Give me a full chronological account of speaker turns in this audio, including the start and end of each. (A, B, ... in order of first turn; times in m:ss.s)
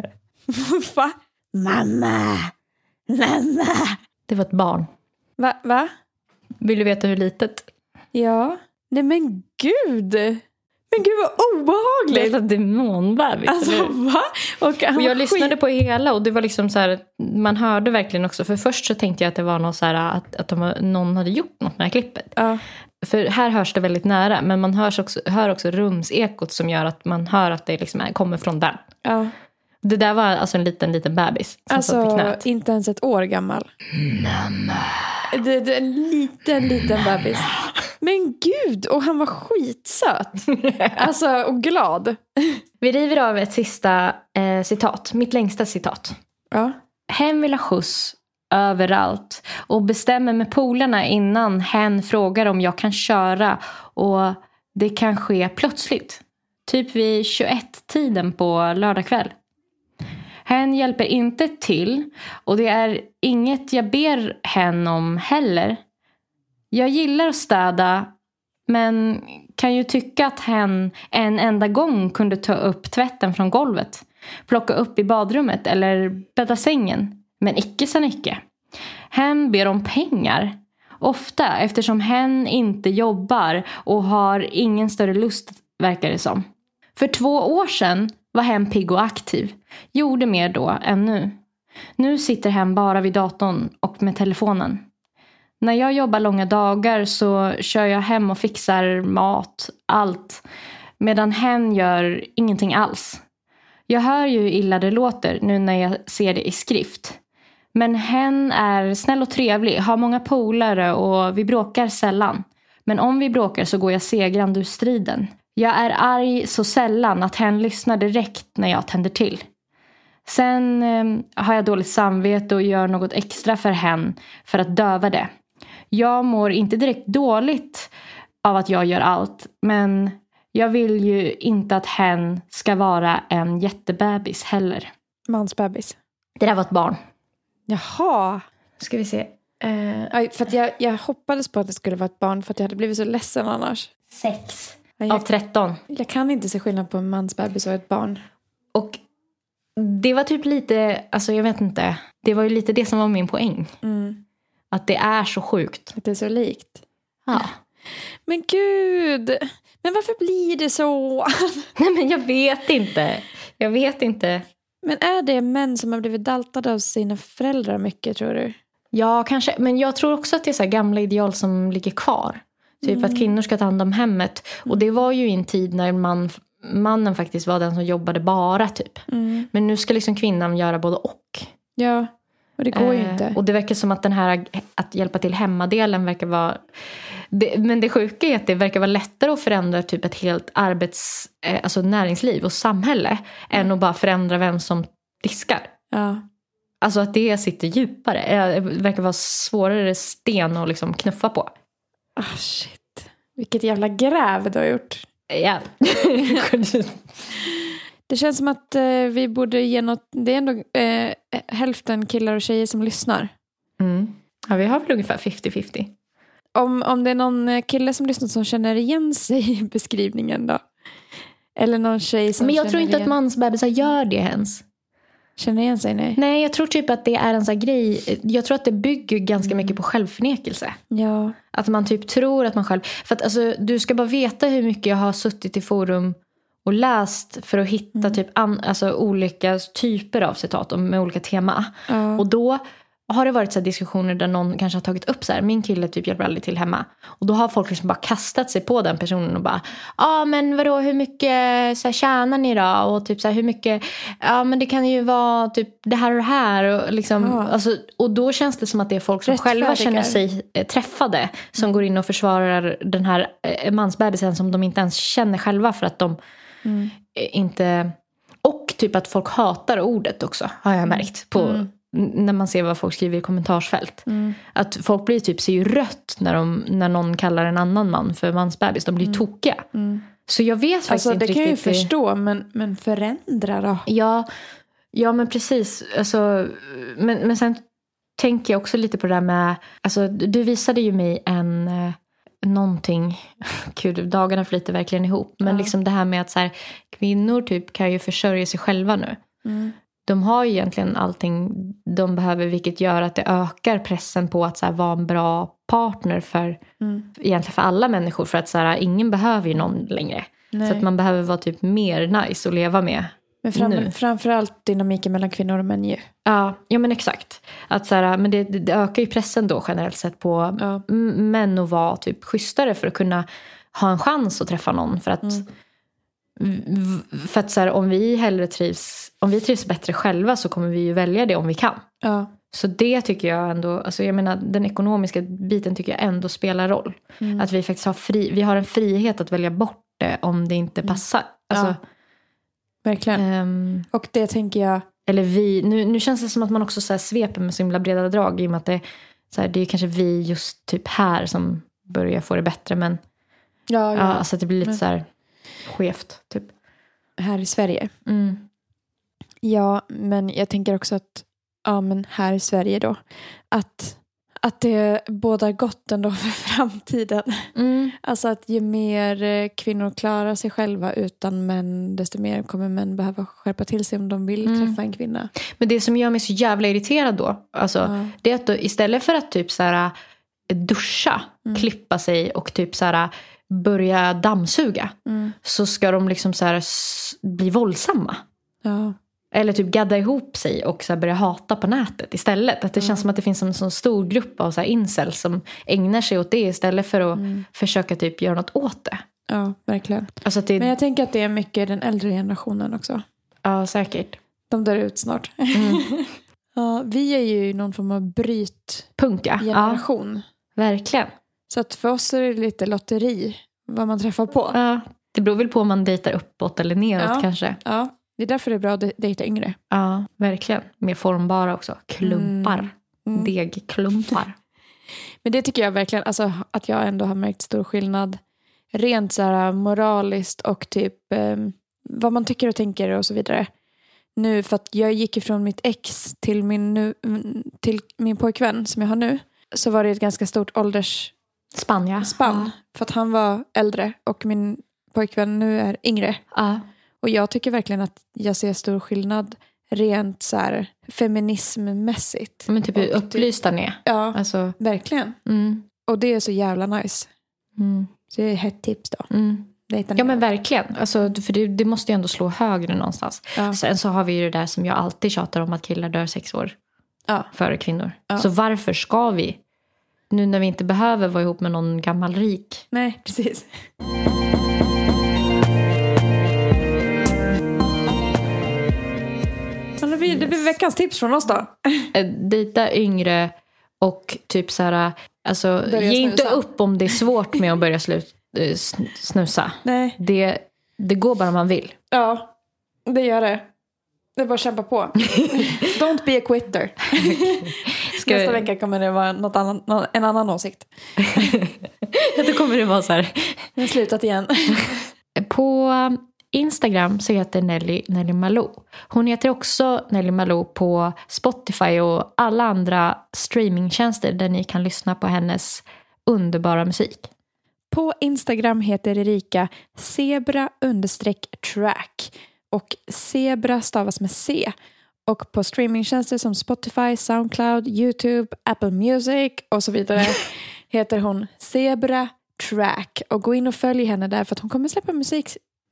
0:00.5-0:02.5 A
0:03.1-0:04.0 A
0:04.3-0:04.9 B
0:05.4-0:05.9 A
0:06.6-0:07.7 B
0:08.1-0:12.4 A
0:12.1-0:13.9 B
0:13.5-0:15.6 A
0:14.9-0:22.4 B
0:22.4-0:22.6 A
0:23.0-0:28.8 B
0:29.0-0:29.3 A
0:29.8-0:32.4 B
0:31.7-0:33.7 A
0:34.0-0:35.2 B
0:35.3-0:37.5 A
0:38.0-0:42.6 A
0:40.6-0:41.0 B
0:42.8-0:46.2 B
0:47.1-0:59.3 B
1:00.4-1:05.8 B
1:06.7-1:08.1 B
1:08.7-1:18.4 B
1:19.1-1:31.4 B
1:32.0-1:34.8 B
1:35.6-1:40.4 B
1:41.0-1:43.2 B
1:43.9-1:47.2 B
1:47.7-1:59.4 B
2:00.2-2:05.3 B
2:05.9-2:07.9 B
2:08.4-2:14.9 B
2:15.3-2:16.0 A
2:16.4-2:17.0 B
2:17.7-2:18.4 A
2:18.8-2:20.1 B
2:20.1-2:23.9 A
2:24.1-2:25.8 B
2:25.0-2:25.2 A
2:25.9-2:28.2 A
2:28.7-2:29.0 B
2:29.8-2:33.7 B
2:33.8-2:34.2 A
2:34.7-2:35.9 B
2:36.0-2:36.8 A
2:37.3-2:37.6 B
2:38.3-2:41.7 A
2:41.8-2:44.4 B
2:44.8-2:48.6 A
2:48.9-3:01.5 B
2:52.8-2:53.3 A
2:59.1-2:59.5 A
3:01.8-3:03.4 A
3:02.7-3:06.6 B
3:07.3-3:15.7 B
3:15.9-3:16.2 A
3:16.8-3:21.5 B
3:22.2-3:25.0 A
3:25.3-3:27.2 B
3:28.1-3:33.3 A
3:33.8-3:35.9 B
3:36.5-3:40.6 A
3:41.6-3:43.1 A
3:42.4-3:44.6 B
3:45.4-3:46.2 A
3:46.2-3:50.8 B
3:49.4-3:49.8 A
3:50.9-3:51.4 A
3:51.5-4:26.2 B
4:01.9-4:02.2 A
4:17.2-4:17.5 A
4:19.2-4:20.2 A
4:26.6-4:26.9 A
4:27.1-4:39.7 B
4:30.9-4:31.7 A
4:34.0-4:34.4 A
4:39.7-4:40.0 A
4:40.3-4:41.9 B
4:40.9-4:43.9 A
4:43.9-4:44.3 B
4:44.9-4:47.6 B
4:48.2-4:59.2 B
4:55.4-4:55.7 A
4:59.4-4:59.7 A
5:00.1-5:06.6 B
5:06.8-5:07.1 A
5:07.2-5:13.9 B
5:10.5-5:10.8 A
5:13.4-5:16.1 A
5:16.2-5:25.4 B
5:20.6-5:20.8 A
5:26.4-5:31.8 B
5:32.0-5:32.3 A
5:32.5-5:41.8 B
5:37.2-5:37.5 A
5:40.8-5:41.8 A
5:42.8-5:43.2 A
5:43.2-5:43.9 B
5:43.9-5:44.8 A
5:45.1-5:53.0 B
5:53.7-5:54.8 A
5:53.9-5:55.1 B
5:55.6-5:56.5 B
5:57.2-5:57.9 A
5:58.0-5:58.4 B
5:59.4-6:03.0 A
6:03.5-6:07.5 A
6:07.5-6:08.0 B
6:08.0-6:15.3 A
6:14.4-6:14.8 B
6:15.4-6:19.9 B
6:17.8-6:18.1 A
6:20.5-6:28.2 B
6:25.0-6:25.4 A
6:28.6-6:29.0 A
6:29.3-6:39.0 B
6:32.8-6:33.0 A
6:37.1-6:37.4 A
6:39.3-6:43.0 A
6:40.2-6:40.7 B
6:43.4-6:44.2 B
6:44.5-6:48.9 A
6:45.5-6:45.8 B
6:49.0-6:49.8 B
6:49.4-6:50.2 A
6:50.6-6:51.1 B
6:51.5-6:54.6 A
6:54.5-6:57.6 B
6:57.0-6:59.6 A
6:59.7-7:04.4 B
7:02.0-7:03.3 A
7:05.2-7:08.2 A
7:08.7-7:13.5 A
7:14.2-7:21.1 A
7:21.5-7:22.5 B
7:22.0-7:26.2 A
7:26.3-7:26.6 B
7:27.0-7:33.3 A
7:32.5-7:34.6 B
7:33.8-7:35.2 A
7:35.2-7:35.7 B
7:35.8-7:37.1 A
7:37.6-7:37.9 B
7:38.1-7:39.1 A
7:39.1-7:46.5 B
7:39.6-7:40.2 A
7:47.3-7:49.4 B
7:50.1-7:52.6 B
7:52.7-7:53.5 A
7:59.8-8:01.9 A
8:00.1-8:00.5 B
8:01.9-8:11.8 B
8:05.6-8:06.4 A
8:09.6-8:10.0 A
8:11.9-8:12.3 A
8:12.8-8:13.5 A
8:14.2-8:21.3 A
8:17.9-8:18.4 B
8:21.0-8:23.5 B
8:23.6-8:24.8 A
8:25.2-8:37.1 B
8:37.7-8:44.5 A
8:45.1-8:55.4 A